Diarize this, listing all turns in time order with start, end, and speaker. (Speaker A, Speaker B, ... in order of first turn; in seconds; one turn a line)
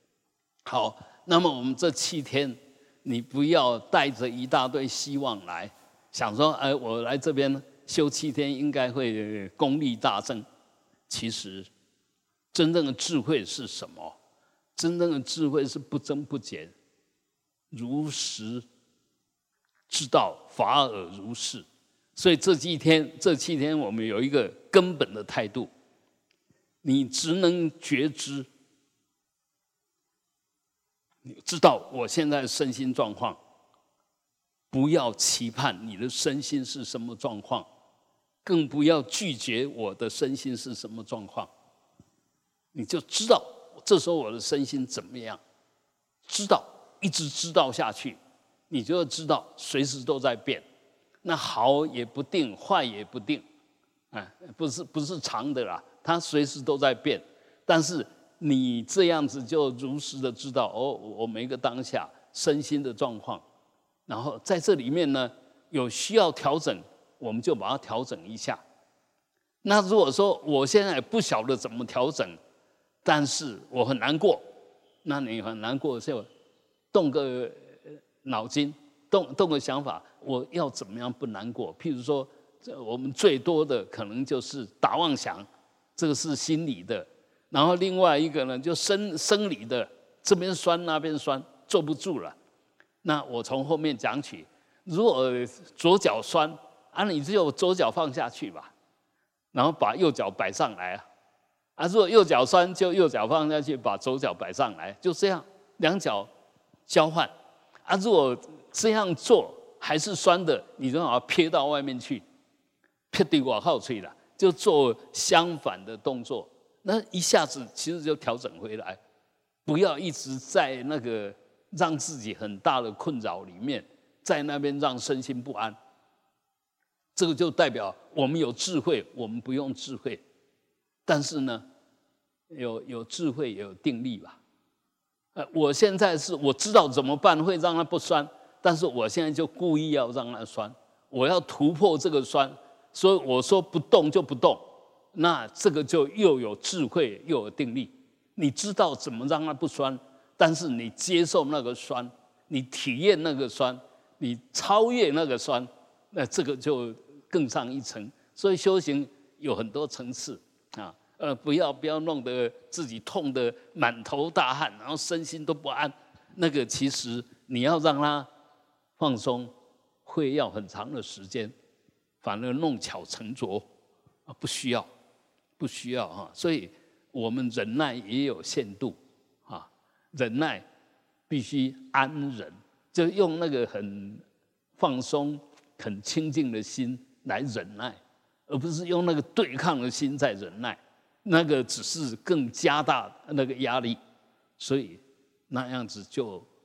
Speaker A: 0.7-10.4
Speaker A: 11.1-11.7
Speaker A: 12.5-14.2
Speaker A: 14.8-16.7
Speaker A: 17.7-18.6
Speaker A: 19.9-21.6
Speaker A: 22.2-25.7
Speaker A: 26.8-28.5
Speaker A: 31.2-33.4
Speaker A: 34.7-37.7
Speaker A: 38.4-41.5
Speaker A: 42.7-45.4
Speaker A: 46.2-48.2
Speaker A: 48.7-50.6
Speaker A: 51.2-53.4
Speaker A: 54.1-63.5
Speaker A: 64.1-68.6
Speaker A: 69.6-72.4
Speaker A: 73.0-74.5
Speaker A: 75.0-76.3
Speaker A: 76.9-92.4
Speaker A: 93.0-98.7
Speaker A: 99.5-101.1
Speaker A: 101.8-106.3
Speaker A: 106.9-107.3
Speaker A: 107.9-112.2
Speaker A: 113.1-119.0
Speaker A: 119.7-125.8
Speaker A: 127.2-130.2
Speaker A: 131.1-131.6
Speaker A: 132.5-134.4
Speaker A: 135.3-168.3
Speaker A: 169.0-169.5
Speaker A: 170.1-171.5
Speaker A: 172.2-173.7
Speaker A: 174.3-174.9
Speaker A: 175.6-180.7
Speaker A: 181.3-184.2
Speaker A: 184.8-194.0
Speaker A: 194.6-196.5